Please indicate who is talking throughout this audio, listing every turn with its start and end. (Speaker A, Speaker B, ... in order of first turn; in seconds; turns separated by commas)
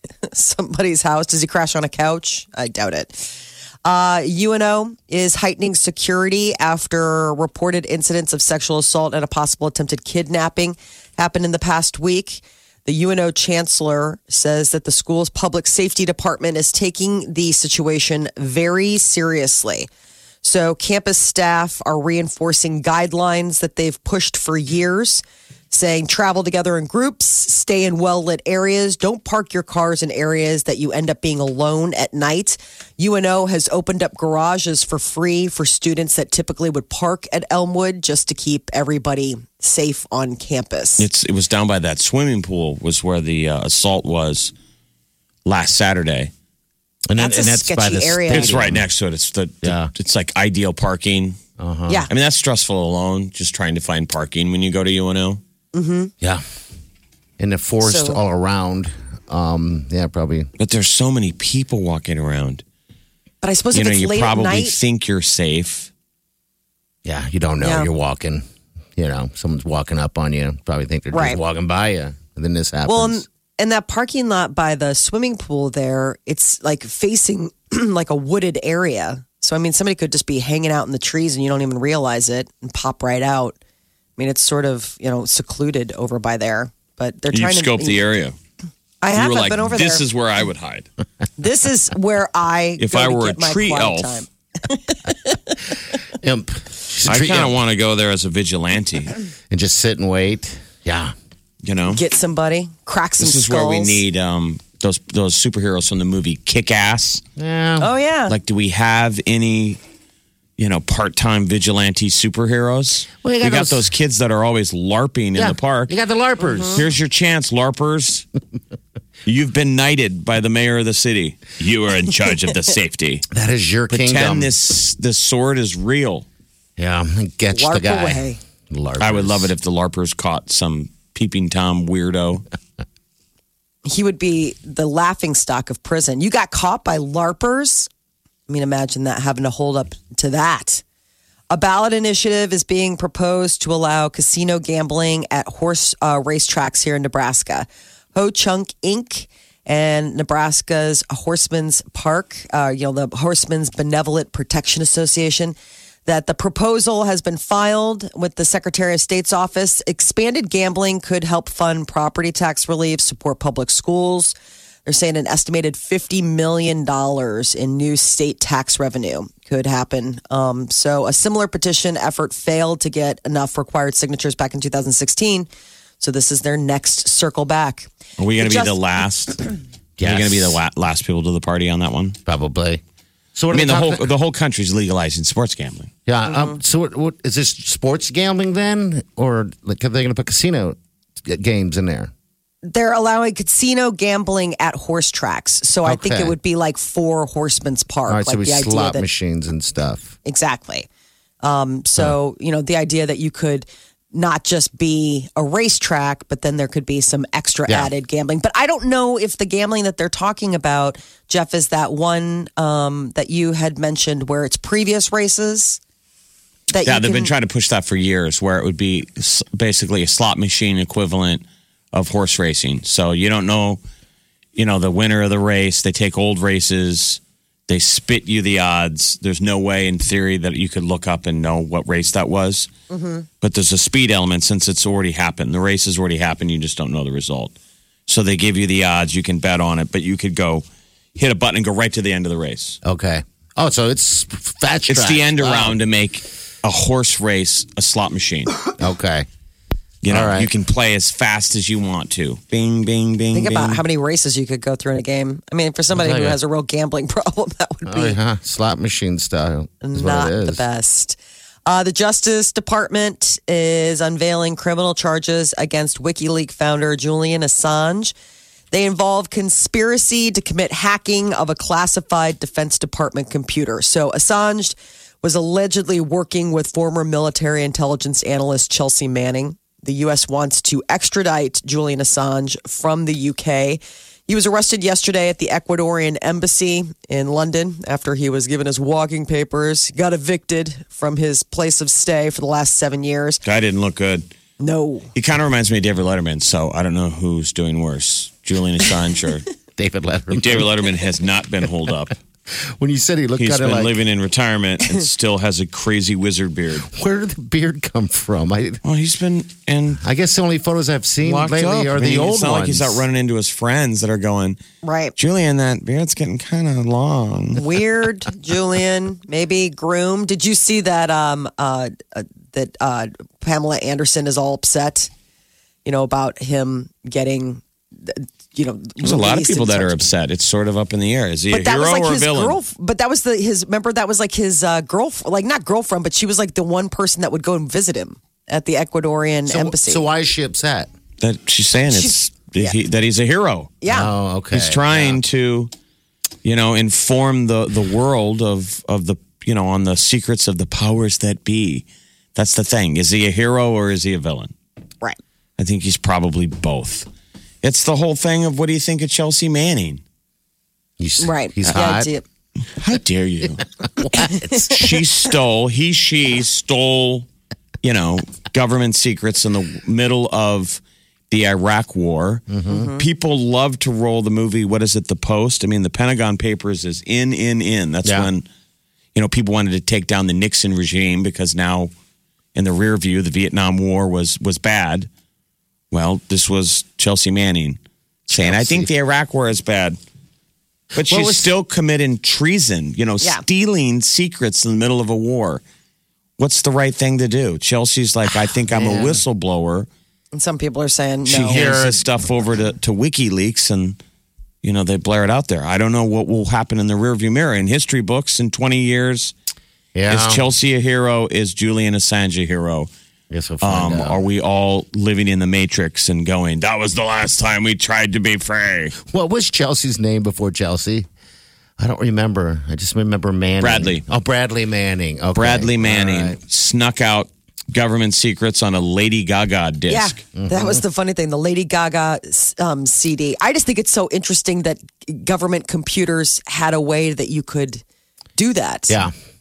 Speaker A: 0.3-3.3, Speaker A: 3.8-19.9, Speaker A: 20.4-41.1, Speaker B: 41.0-44.5, Speaker B: 45.4-46.3, Speaker C: 47.1-48.9, Speaker A: 47.2-48.5, Speaker B: 48.3-51.4, Speaker C: 49.6-49.9, Speaker C: 51.6-52.1, Speaker B: 52.1-55.4, Speaker A: 55.7-56.1, Speaker C: 57.4-60.5, Speaker A: 57.8-58.2, Speaker B: 60.6-62.6, Speaker A: 63.4-64.8, Speaker B: 63.7-65.9, Speaker C: 67.0-68.4, Speaker A: 67.6-67.9, Speaker C: 69.0-73.2, Speaker A: 71.1-71.4, Speaker A: 72.8-83.6, Speaker A: 84.2-88.0, Speaker B: 87.3-88.3, Speaker A: 89.0-90.0, Speaker B: 89.1-90.9, Speaker A: 91.4-95.4, Speaker B: 92.8-94.2, Speaker C: 96.2-97.5, Speaker B: 97.0-99.2, Speaker C: 99.5-101.1, Speaker B: 101.6-102.0, Speaker A: 101.9-104.0, Speaker B: 103.2-107.2, Speaker C: 107.3-107.9, Speaker A: 107.8-108.3, Speaker B: 108.3-109.8, Speaker B: 110.6-116.0, Speaker C: 113.2-113.9, Speaker C: 115.3-116.9, Speaker A: 116.4-116.8, Speaker B: 116.7-118.2, Speaker B: 119.2-123.2, Speaker C: 123.3-124.5, Speaker B: 123.9-126.2, Speaker C: 126.8-129.5, Speaker A: 127.5-128.4, Speaker B: 129.0-132.4, Speaker A: 133.8-137.9, Speaker A: 138.5-140.8, Speaker A: 141.5-164.3, Speaker A: 164.8-175.5, Speaker A: 176.0-178.7, Speaker B: 178.2-179.4, Speaker C: 180.0-180.6, Speaker B: 180.0-182.2, Speaker C: 182.2-182.8, Speaker C: 183.3-184.0, Speaker B: 183.5-185.9, Speaker C: 186.1-192.1, Speaker A: 186.3-186.6, Speaker A: 192.6-199.1, Speaker C: 195.8-196.3, Speaker C: 198.1-200.2, Speaker A: 200.2-200.9, Speaker A: 201.4-215.8, Speaker A: 216.7-217.3, Speaker B: 216.8-223.8, Speaker B: 224.6-232.7, Speaker A: 232.9-233.3, Speaker B: 233.4-237.5, Speaker B: 238.1-240.6, Speaker B: 241.2-242.8, Speaker C: 242.8-245.8, Speaker B: 244.9-248.6, Speaker C: 248.7-249.3, Speaker B: 250.0-253.8, Speaker C: 250.1-250.5, Speaker A: 253.3-258.2, Speaker C: 255.9-256.4, Speaker C: 257.8-260.6, Speaker A: 259.8-268.1, Speaker A: 268.7-293.4, Speaker B: 293.4-294.3, Speaker A: 294.6-295.1, Speaker B: 295.1-299.5, Speaker C: 299.8-300.7, Speaker B: 300.3-302.1, Speaker C: 302.7-303.9, Speaker B: 303.4-306.9, Speaker C: 306.8-308.8, Speaker B: 308.8-310.0, Speaker C: 310.0-313.0, Speaker B: 311.2-314.6, Speaker A: 314.8-315.1, Speaker B: 315.2-317.6, Speaker A: 317.5-325.1, Speaker A: 325.8-330.0, Speaker B: 329.0-332.6, Speaker A: 331.5-340.1, Speaker C: 339.5-340.9, Speaker B: 341.2-343.7, Speaker A: 341.9-342.8, Speaker A: 343.8-344.1, Speaker C: 343.9-345.2, Speaker B: 344.5-345.7, Speaker B: 346.4-354.5, Speaker B: 355.6-357.1, Speaker B: 357.6-360.0, Speaker C: 361.0-362.1, Speaker A: 361.2-362.2, Speaker B: 362.7-363.6, Speaker C: 363.8-364.9, Speaker A: 364.1-364.9, Speaker B: 364.7-367.3, Speaker B: 367.8-378.4, Speaker C: 372.5-372.9, Speaker A: 372.7-373.1, Speaker B: 379.1-381.9, Speaker B: 382.5-385.1, Speaker B: 385.9-390.0, Speaker C: 388.3-388.9, Speaker B: 390.9-395.6, Speaker C: 391.0-391.5, Speaker B: 396.4-399.9, Speaker C: 398.7-399.2, Speaker A: 400.3-401.7, Speaker B: 401.3-404.0, Speaker C: 401.4-402.0, Speaker B: 404.6-409.3, Speaker C: 409.9-410.5, Speaker B: 410.1-412.9, Speaker C: 413.3-414.2, Speaker B: 413.6-418.9, Speaker C: 419.0-421.1, Speaker C: 421.8-426.4, Speaker B: 423.6-424.0, Speaker B: 425.3-430.2, Speaker A: 429.9-437.8, Speaker C: 430.4-430.8, Speaker A: 438.4-439.0, Speaker C: 438.9-439.1